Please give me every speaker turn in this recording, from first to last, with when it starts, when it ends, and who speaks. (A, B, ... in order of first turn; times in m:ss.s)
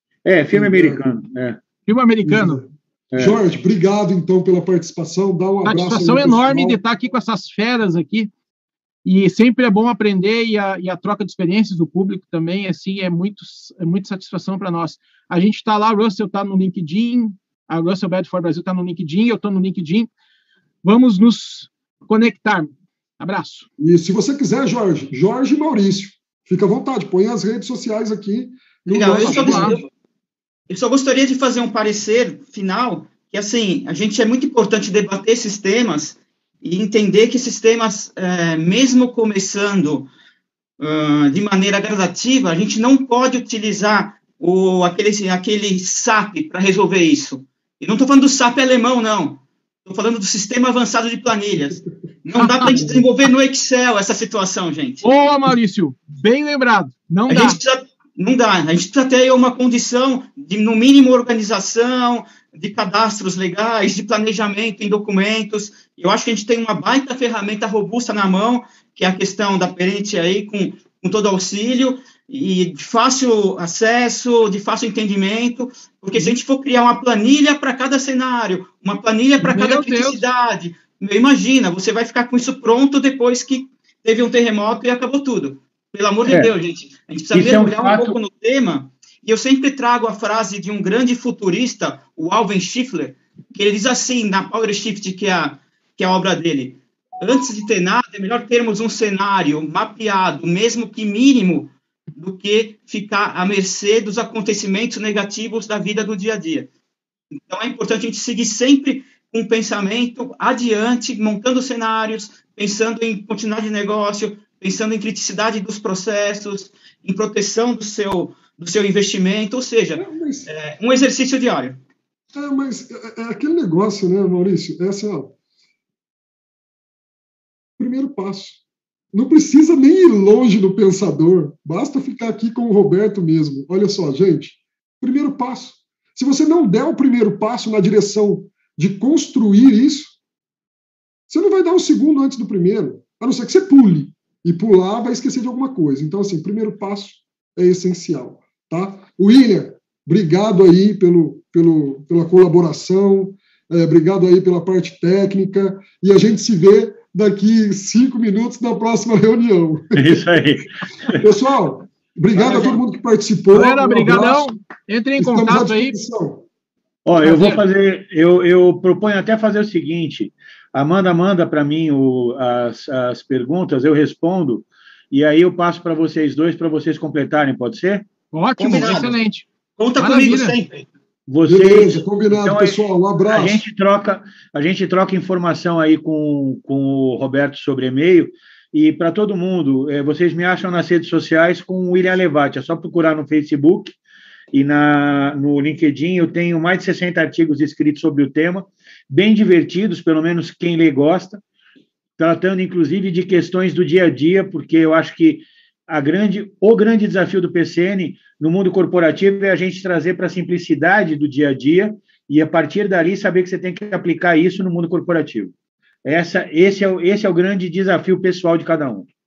0:00.2-0:01.6 A
0:00.5-0:01.0 B
0:01.8-0:02.6 C
0:02.2-0:06.8 B
0:03.1-0:03.4 A
0:05.6-0:08.3 C
0:09.0-0:20.1 C
0:20.8-0:23.7 C
0:23.8-0:29.8 B
0:28.9-0:29.9 D
0:29.0-0:29.8 C
0:30.7-0:40.1 D
0:40.8-0:55.1 D
0:52.4-0:53.0 C
0:55.0-0:57.6 C
0:57.3-1:46.7 D
1:19.4-1:20.2 C
1:26.3-1:26.5 A
1:27.3-1:28.2 A
1:47.4-2:01.8 D
2:00.0-2:00.5 B
2:02.3-2:05.3 B
2:07.8-2:08.6 B
2:09.1-2:20.2 B
2:21.3-2:40.2 B
2:39.9-2:41.2 A
2:41.2-2:44.5 B
2:42.3-2:42.8 D
2:43.5-2:45.9 C
2:45.2-2:46.4 B
2:47.0-2:58.0 A
2:47.2-2:47.6 C
2:58.3-2:59.5 C
2:58.6-2:59.2 D
2:59.8-3:00.8 D
3:00.0-3:00.6 C
3:01.3-3:14.0 A
3:01.4-3:03.6 B
3:14.5-3:21.4 A
3:22.2-3:35.5 A
3:36.0-3:39.1 A